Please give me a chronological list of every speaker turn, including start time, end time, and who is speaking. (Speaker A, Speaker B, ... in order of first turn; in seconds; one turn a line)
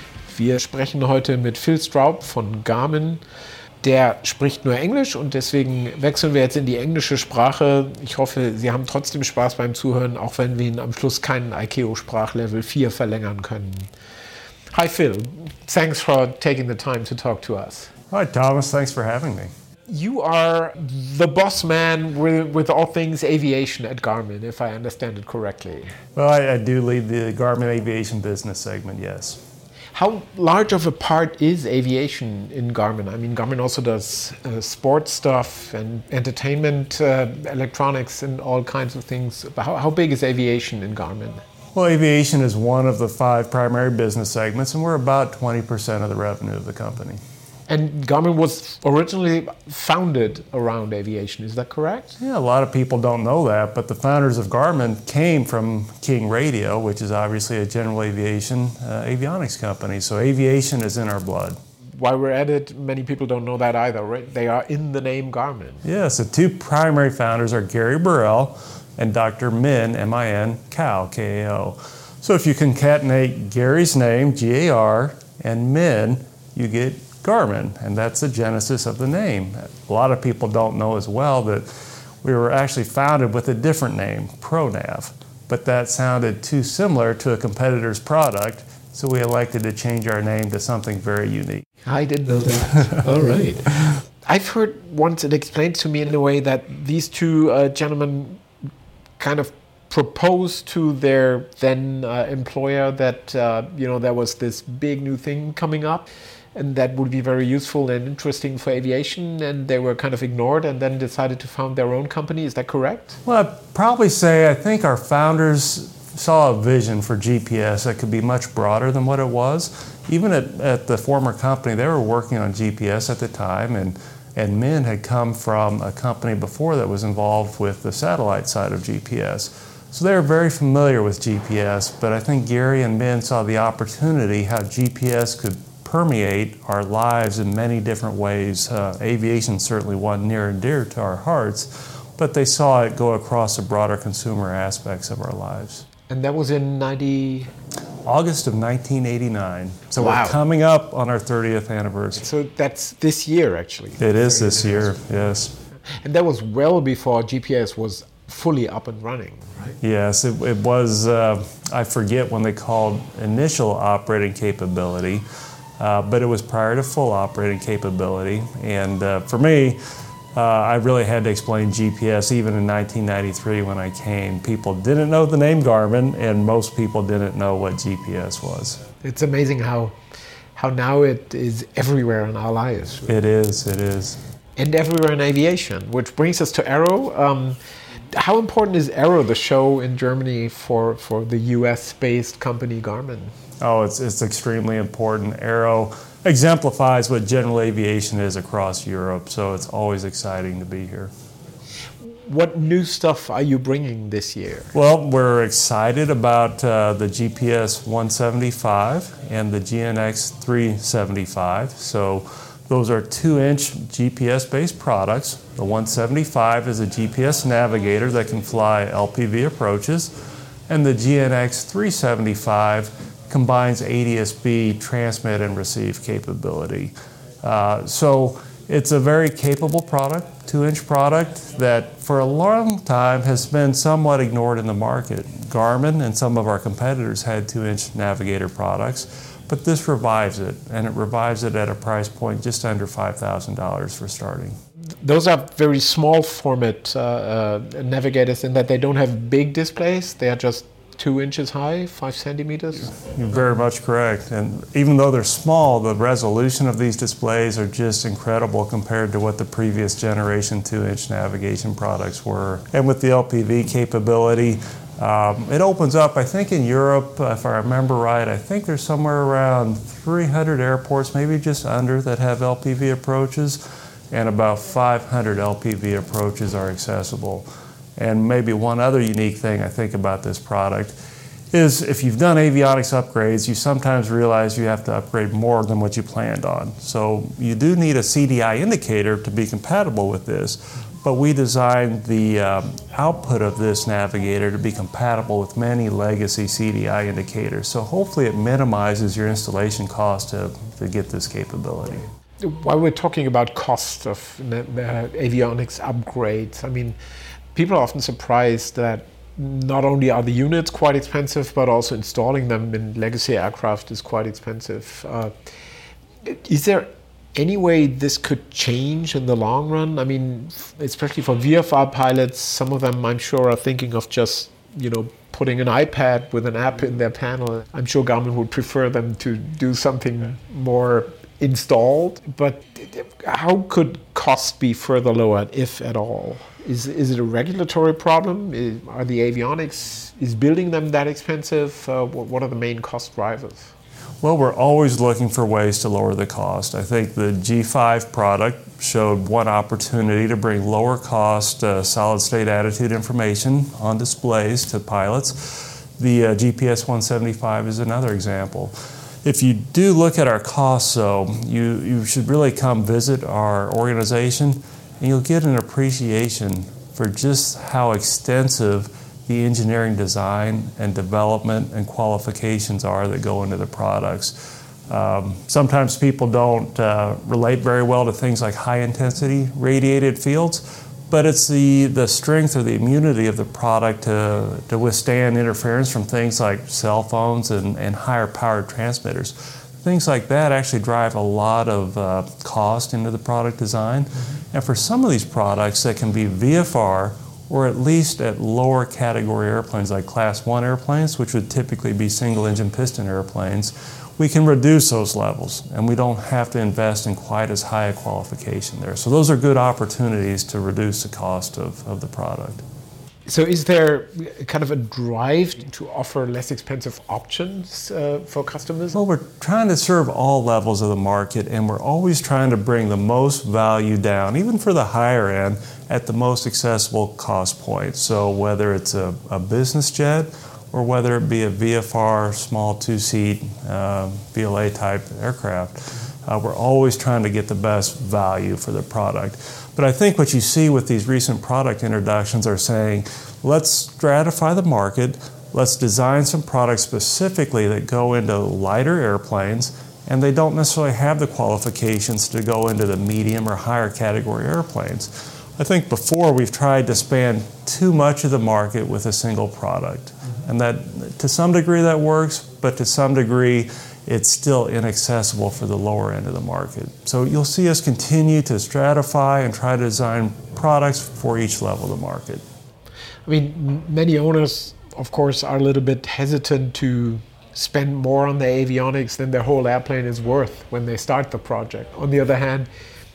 Speaker A: 0.3-3.2
Speaker A: 3.8-13.9
Speaker A: 14.7-17.9
Speaker B: 18.1-19.5
Speaker A: 19.9-25.9
Speaker B: 26.1-29.4
Speaker A: 29.9-41.4
Speaker B: 41.7-47.2
Speaker A: 47.7-52.2
Speaker B: 52.2-61.6
Speaker A: 62.0-65.8
Speaker B: 65.8-81.7
Speaker B: 82.2-91.7
Speaker A: 91.8-98.4
Speaker A: 99.2-113.2
Speaker B: 113.2-145.8
Speaker A: 146.1-147.5
Speaker B: 148.0-152.3
Speaker A: 150.0-150.4
Speaker A: 152.1-154.9
Speaker B: 154.0-155.6
Speaker A: 155.9-159.8
Speaker B: 159.8-165.2
Speaker B: 165.8-169.8
Speaker B: 170.3-178.8
Speaker A: 179.0-179.9
Speaker A: 180.5-183.1
Speaker B: 183.1-184.2
Speaker A: 184.6-187.6
Speaker A: 188.1-193.3
Speaker B: 193.6-201.1
Speaker A: 202.0-204.7
Speaker B: 204.7-220.1
Speaker B: 220.7-244.6
Speaker A: 245.0-252.9
Speaker B: 252.9-280.9
Speaker B: 281.5-302.1
Speaker A: 302.4-306.9
Speaker A: 307.5-315.3
Speaker A: 316.2-343.7
Speaker B: 344.2-374.4
Speaker B: 374.9-412.6
Speaker A: 413.3-418.9
Speaker B: 418.9-472.4
Speaker A: 473.3-482.7